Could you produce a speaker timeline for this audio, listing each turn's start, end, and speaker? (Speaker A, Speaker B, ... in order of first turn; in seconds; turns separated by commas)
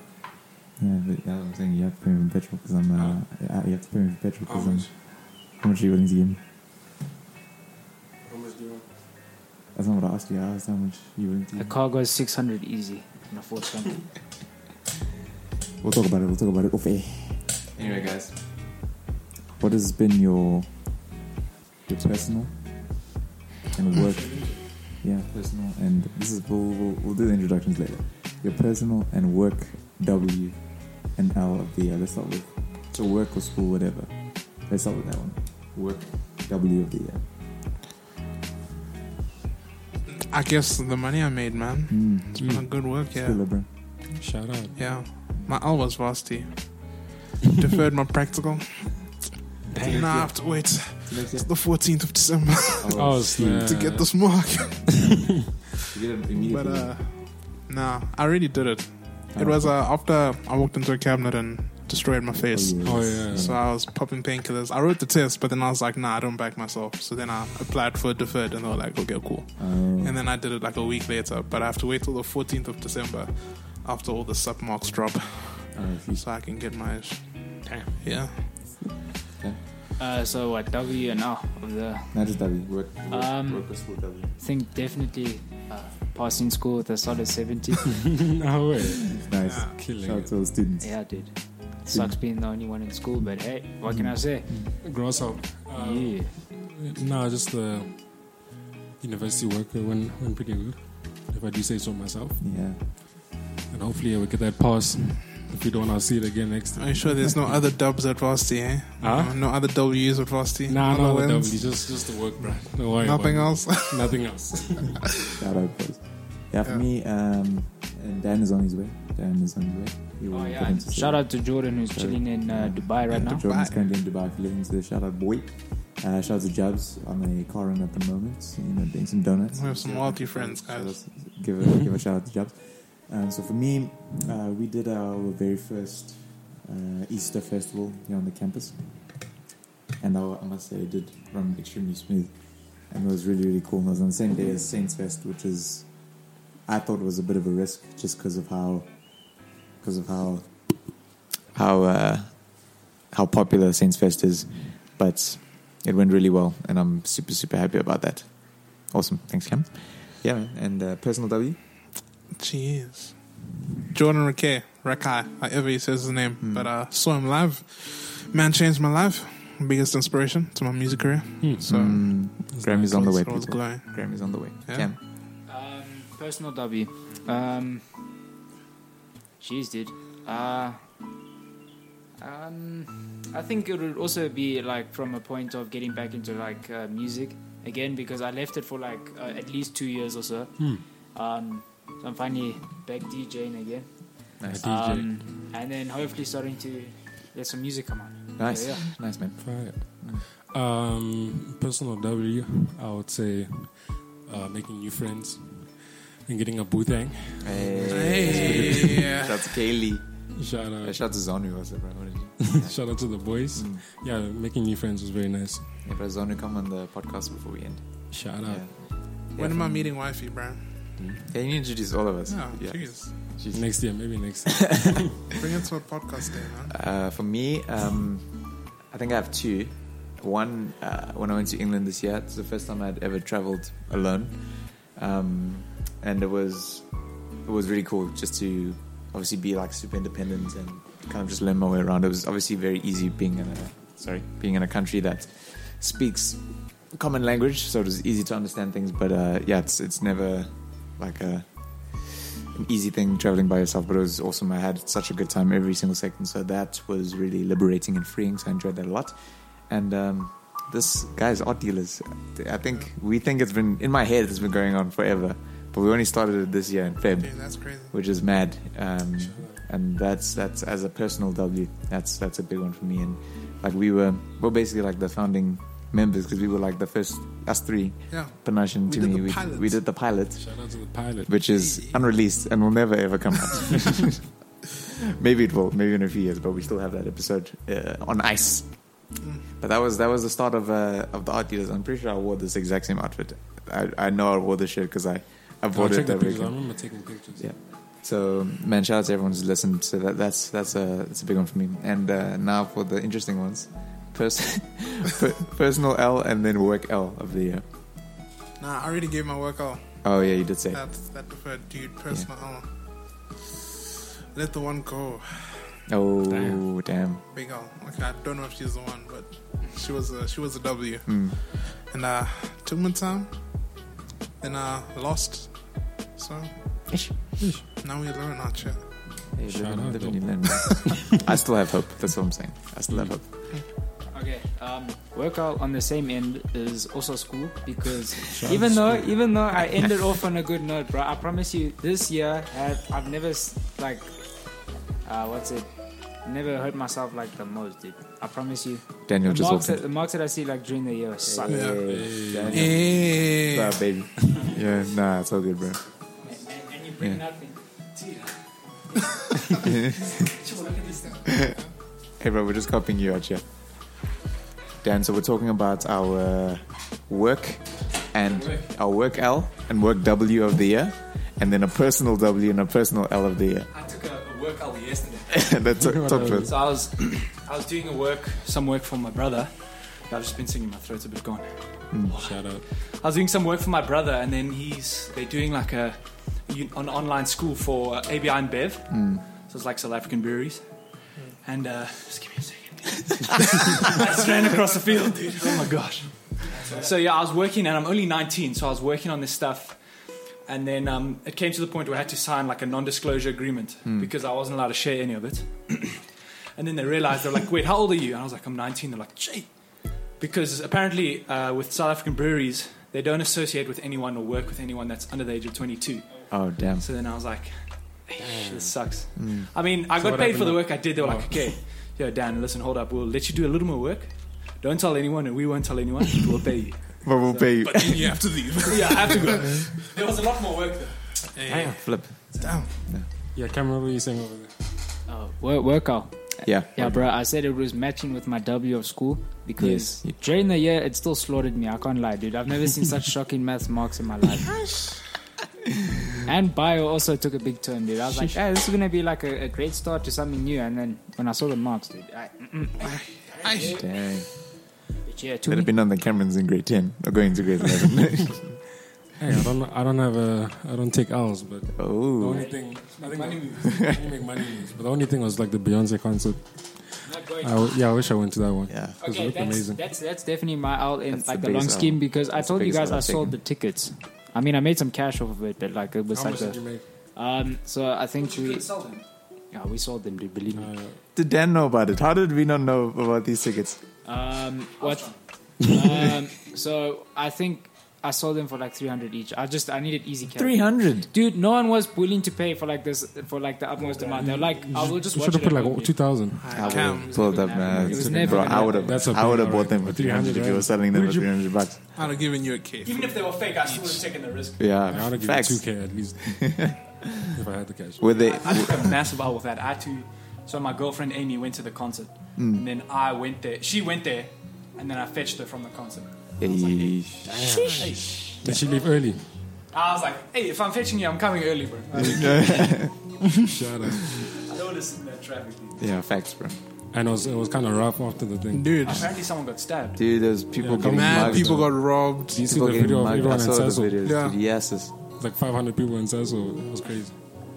Speaker A: 0.8-6.4, Speaker B: 4.5-4.9, Speaker B: 8.2-8.9, Speaker A: 9.7-11.8, Speaker C: 11.6-14.1, Speaker A: 15.8-18.9, Speaker A: 19.6-20.7, Speaker A: 21.9-23.1, Speaker A: 23.7-37.3, Speaker B: 23.9-24.7, Speaker D: 40.1-44.0, Speaker A: 41.9-43.9, Speaker B: 42.4-42.7, Speaker B: 44.1-45.0, Speaker D: 44.7-54.9, Speaker A: 45.3-45.6, Speaker B: 49.7-50.3, Speaker A: 49.9-50.3, Speaker A: 51.0-51.5, Speaker A: 52.8-53.7, Speaker B: 52.9-55.5, Speaker A: 55.9-57.0, Speaker D: 56.4-78.5, Speaker A: 59.4-59.8, Speaker A: 62.3-63.7, Speaker B: 62.8-63.6, Speaker A: 69.6-70.2, Speaker A: 75.7-76.2, Speaker B: 77.6-78.0, Speaker C: 80.0-82.3, Speaker A: 82.1-84.3, Speaker C: 83.1-88.1, Speaker B: 88.2-90.3, Speaker A: 89.1-91.3, Speaker D: 89.4-89.8, Speaker C: 90.8-94.5, Speaker A: 91.9-92.2, Speaker A: 93.9-94.8, Speaker B: 94.8-102.5, Speaker C: 95.7-96.3, Speaker A: 102.4-102.8, Speaker B: 103.7-107.7, Speaker D: 106.8-114.2, Speaker B: 109.0-109.7, Speaker B: 110.7-115.0, Speaker A: 115.4-139.2, Speaker C: 120.3-123.4, Speaker D: 123.2-123.8, Speaker D: 129.5-131.0, Speaker A: 140.0-161.6, Speaker D: 162.3-174.9, Speaker A: 166.4-166.7, Speaker B: 171.4-173.0, Speaker A: 171.6-175.0, Speaker C: 175.5-177.8, Speaker C: 179.4-180.8, Speaker C: 182.2-198.9, Speaker B: 190.6-190.8, Speaker A: 194.4-194.7, Speaker B: 194.5-195.2, Speaker A: 198.4-200.3, Speaker B: 199.4-209.2, Speaker A: 207.4-213.8, Speaker D: 207.9-209.3, Speaker B: 210.3-211.0, Speaker B: 212.4-215.7, Speaker A: 215.8-219.9, Speaker B: 218.1-219.0, Speaker D: 219.3-220.9, Speaker B: 221.0-221.3, Speaker A: 221.3-225.0, Speaker D: 222.3-223.4, Speaker B: 223.5-225.3, Speaker D: 225.3-226.8, Speaker A: 226.7-284.3, Speaker D: 267.2-267.9, Speaker B: 269.2-269.6, Speaker D: 278.1-279.8, Speaker B: 280.4-281.4, Speaker D: 281.6-282.0, Speaker A: 285.1-307.6, Speaker D: 289.2-289.5, Speaker B: 295.7-297.5, Speaker D: 308.6-310.2, Speaker A: 310.0-310.8, Speaker D: 310.7-312.7, Speaker D: 314.3-315.8, Speaker A: 315.9-317.2, Speaker B: 316.3-316.6, Speaker D: 317.3-323.8, Speaker A: 321.1-321.4, Speaker D: 324.4-329.3, Speaker A: 326.9-327.4, Speaker B: 327.4-327.7, Speaker A: 329.3-333.6, Speaker B: 329.5-331.2, Speaker B: 332.9-333.2, Speaker C: 334.1-351.8, Speaker B: 338.4-339.2, Speaker A: 349.1-349.8, Speaker A: 351.2-355.8, Speaker D: 351.5-353.8, Speaker B: 351.9-352.8, Speaker C: 356.2-357.6, Speaker E: 357.9-358.4, Speaker A: 359.6-360.4, Speaker E: 360.2-361.4, Speaker A: 361.2-363.4, Speaker A: 364.8-373.7, Speaker E: 368.3-368.7, Speaker E: 373.7-375.5, Speaker A: 375.3-376.6, Speaker B: 375.8-376.6, Speaker E: 376.4-431.2, Speaker B: 382.2-382.6, Speaker A: 388.9-389.2, Speaker A: 403.9-404.1, Speaker A: 416.3-416.9, Speaker B: 418.2-419.0, Speaker A: 419.2-419.5, Speaker B: 419.9-421.6, Speaker A: 427.0-428.2, Speaker D: 427.8-429.7, Speaker D: 431.4-432.8, Speaker B: 431.5-432.0, Speaker A: 431.7-433.1, Speaker B: 433.3-434.5, Speaker C: 435.1-444.7, Speaker A: 436.4-437.1, Speaker A: 439.6-440.2, Speaker C: 446.2-453.8, Speaker D: 452.9-453.8, Speaker A: 453.6-454.3, Speaker C: 455.0-455.7, Speaker A: 455.5-458.7, Speaker B: 459.1-469.8, Speaker A: 461.8-462.5, Speaker E: 463.0-463.9, Speaker A: 463.6-464.0, Speaker C: 467.0-467.8, Speaker A: 468.7-469.0, Speaker C: 469.0-478.9, Speaker A: 471.1-473.4, Speaker B: 476.1-476.9, Speaker E: 478.2-479.0, Speaker C: 479.5-480.7, Speaker B: 480.5-481.0, Speaker A: 481.1-483.8, Speaker C: 484.1-498.9, Speaker E: 484.8-485.2, Speaker A: 490.3-491.1, Speaker B: 494.1-496.8, Speaker D: 496.4-497.5, Speaker A: 496.5-501.9, Speaker B: 497.5-501.5, Speaker D: 501.9-504.1, Speaker E: 502.8-505.0, Speaker A: 504.6-507.3, Speaker B: 504.9-506.8, Speaker B: 507.4-508.2, Speaker A: 508.0-509.0, Speaker E: 508.1-518.8, Speaker A: 512.4-512.6, Speaker A: 516.4-517.5, Speaker B: 517.2-519.4, Speaker E: 519.5-523.0, Speaker B: 521.9-524.3, Speaker A: 522.0-523.2, Speaker E: 524.0-525.8, Speaker A: 525.8-526.6, Speaker B: 526.9-529.0, Speaker D: 528.5-529.1, Speaker E: 528.8-530.2, Speaker A: 530.0-534.9, Speaker B: 530.6-534.0, Speaker D: 530.8-532.5, Speaker D: 534.0-534.4, Speaker B: 535.1-537.2